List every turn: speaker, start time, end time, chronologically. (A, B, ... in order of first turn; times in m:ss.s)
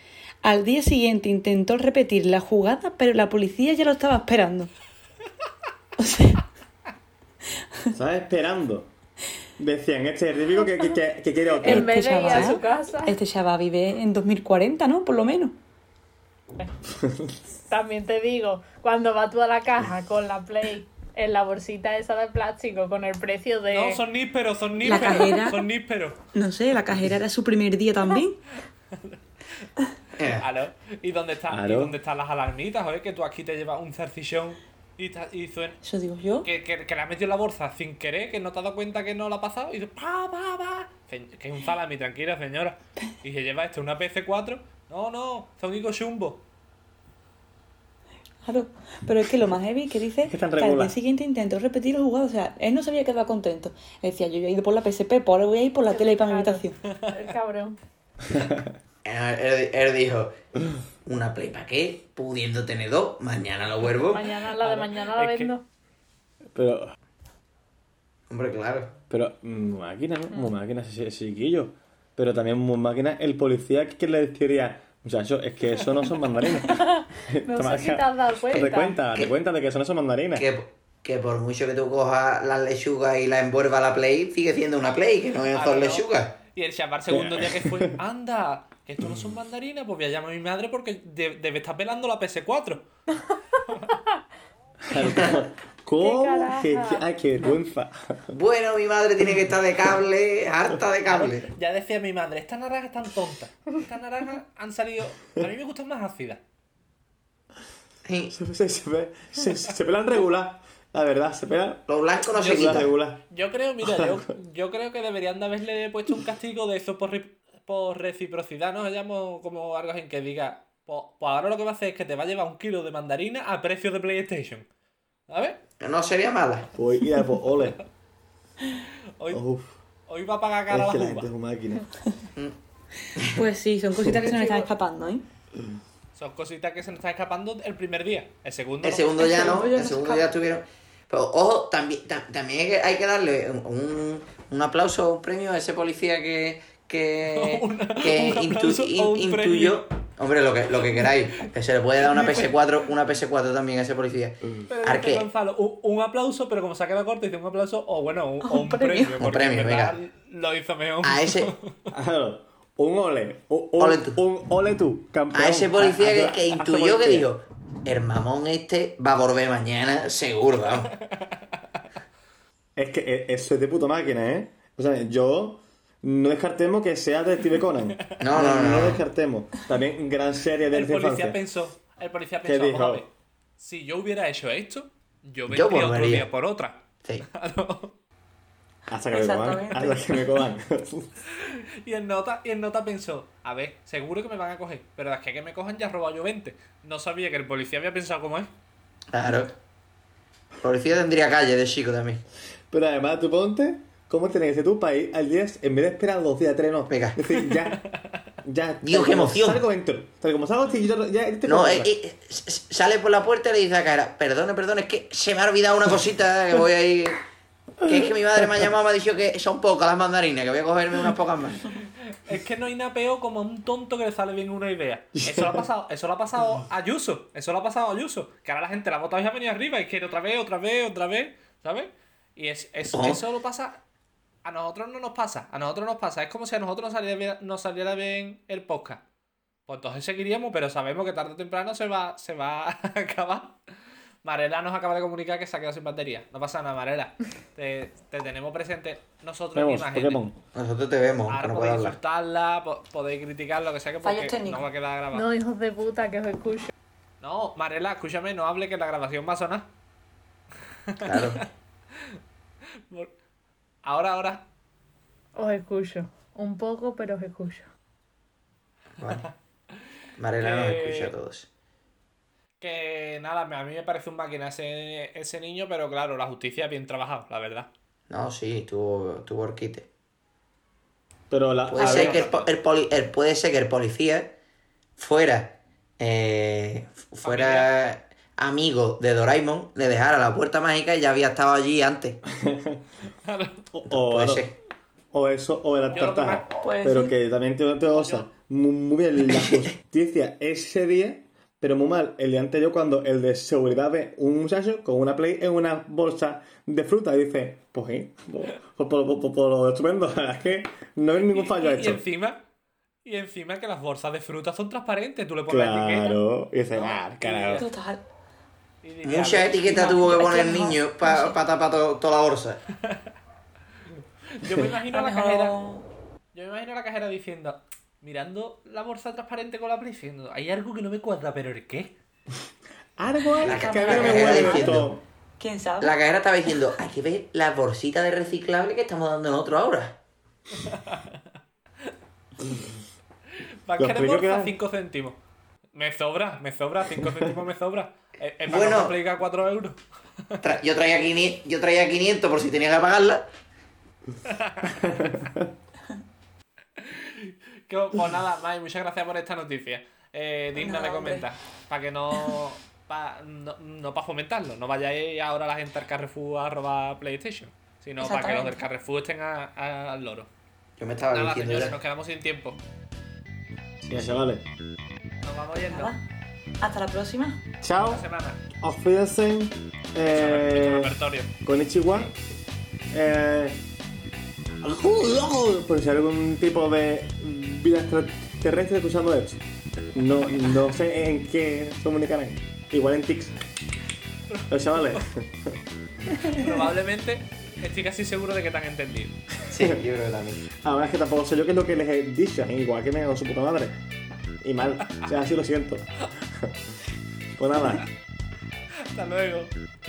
0:00.4-0:04.7 A
0:06.0-0:06.4 A
0:07.9-0:08.9 B
0:09.6-0:12.2 B
0:11.6-0:13.2 C
0:11.6-0:15.6 A
0:12.2-0:12.5 D
0:17.7-0:24.0 C
0:23.7-0:26.2 E
0:24.8-0:25.7 A
0:26.3-0:28.4 A
0:30.2-0:30.5 D
0:30.2-0:35.8 E
0:31.5-0:31.9 B
0:35.8-0:36.5 A
0:36.4-0:46.4 E
0:48.4-0:56.8 A
0:50.2-0:51.0 B
0:55.9-0:57.8 C
0:56.9-0:57.2 E
0:58.3-0:58.7 B
0:59.0-1:00.3 D
1:01.0-1:04.2 D
1:04.1-1:05.6 C
1:04.1-1:05.5 E
1:06.5-1:06.9 B
1:08.3-1:08.9 D
1:09.1-1:20.5 B
1:16.6-1:19.0 C
1:18.5-1:19.3 D
1:20.3-1:26.4 D
1:25.5-1:32.8 E
1:27.1-1:28.0 B
1:34.8-1:38.4 B
1:35.0-1:35.4 D
1:36.0-1:37.0 C
1:38.3-1:41.5 D
1:41.0-1:46.4 E
1:48.0-1:48.3 D
1:48.3-1:53.2 B
1:51.9-1:52.9 D
1:52.3-2:04.6 E
1:53.8-1:54.2 B
2:05.3-2:05.6 E
2:05.8-2:06.7 D
2:06.7-2:07.8 B
2:09.3-2:09.7 B
2:10.1-2:11.3 E
2:10.7-2:11.9 B
2:13.1-2:15.2 A
2:14.3-2:14.6 D
2:16.1-2:19.5 E
2:18.8-2:35.2 D
2:19.2-2:20.3 A
2:27.3-2:29.9 E
2:32.0-2:32.6 E
2:34.7-2:41.8 E
2:38.4-2:39.1 A
2:39.1-2:40.0 D
2:41.0-2:41.5 D
2:41.9-2:47.3 B
2:43.8-2:44.2 D
2:45.3-2:50.9 D
2:51.1-2:51.4 E
2:52.8-3:01.4 B
2:58.2-2:59.0 D
3:00.7-3:07.9 E
3:02.4-3:03.0 B
3:05.5-3:06.3 D
3:08.9-3:11.1 B
3:09.1-3:10.4 A
3:11.2-3:18.5 E
3:19.1-3:19.5 D
3:20.6-3:22.2 D
3:22.7-3:27.9 B
3:26.9-3:27.2 D
3:28.4-3:31.9 B
3:28.8-3:29.6 D
3:31.4-3:37.2 D
3:37.8-3:38.6 B
3:37.8-3:41.7 D
3:42.1-3:53.8 E
3:45.2-3:45.6 B
3:52.9-3:53.2 D
3:54.4-3:59.0 E
3:59.7-4:03.6 E
4:04.2-4:10.2 E
4:09.5-4:10.4 B
4:10.5-4:12.0 D
4:11.3-4:15.3 E
4:14.0-4:14.7 A
4:15.1-4:16.7 C
4:17.2-4:19.7 E
4:20.9-4:21.4 E
4:21.0-4:21.4 D
4:23.8-4:24.4 E
4:25.4-4:27.7 C
4:29.0-4:29.3 D
4:30.2-4:31.5 D
4:30.4-4:31.1 E
4:32.6-4:37.7 E
4:38.1-4:39.9 D
4:41.3-4:42.3 B
4:41.7-4:42.5 E
4:41.7-4:44.3 D
4:45.0-4:52.2 D
4:47.2-4:47.7 E
4:52.3-4:52.8 B
4:53.2-4:53.6 E
4:53.7-4:54.5 B
4:53.9-4:54.5 D
4:55.1-5:12.0 B
4:55.9-4:56.5 E
4:56.5-4:57.1 A
4:57.9-4:58.3 E
5:11.3-5:12.4 E
5:13.0-5:16.2 E
5:15.5-5:17.6 B
5:16.7-5:17.7 E
5:17.5-5:18.0 A
5:18.8-5:20.7 E
5:19.0-5:22.6 D
5:19.8-5:21.4 A
5:24.3-5:25.6 E
5:24.9-5:25.8 A
5:26.3-5:31.9 E
5:33.0-5:35.0 B
5:33.4-5:34.8 A
5:33.4-5:34.9 D
5:35.4-5:36.0 A
5:35.8-5:40.0 D
5:40.5-5:41.2 E
5:43.6-5:45.2 E
5:43.8-5:44.5 B
5:45.7-5:50.4 E
5:48.5-5:49.0 D
5:50.4-5:53.2 D
5:54.2-5:54.8 E
5:54.7-5:55.5 B
5:56.8-6:10.3 E
6:00.5-6:01.3 A
6:08.0-6:08.7 A
6:10.8-6:11.7 D
6:11.1-6:12.6 E
6:13.8-6:14.4 B
6:15.2-6:15.9 E
6:15.6-6:16.0 A
6:16.6-6:17.4 A
6:17.6-6:18.0 B
6:17.7-6:18.4 E
6:18.6-6:22.1 B
6:20.0-6:21.3 E
6:22.9-6:23.6 B
6:24.6-6:29.4 B
6:29.9-6:33.4 B
6:34.3-6:35.0 E
6:34.5-6:35.6 B
6:36.3-6:39.2 E
6:39.5-6:40.4 D
6:40.5-6:43.8 B
6:44.4-6:46.8 B
6:47.4-6:47.8 B
6:48.8-6:49.5 E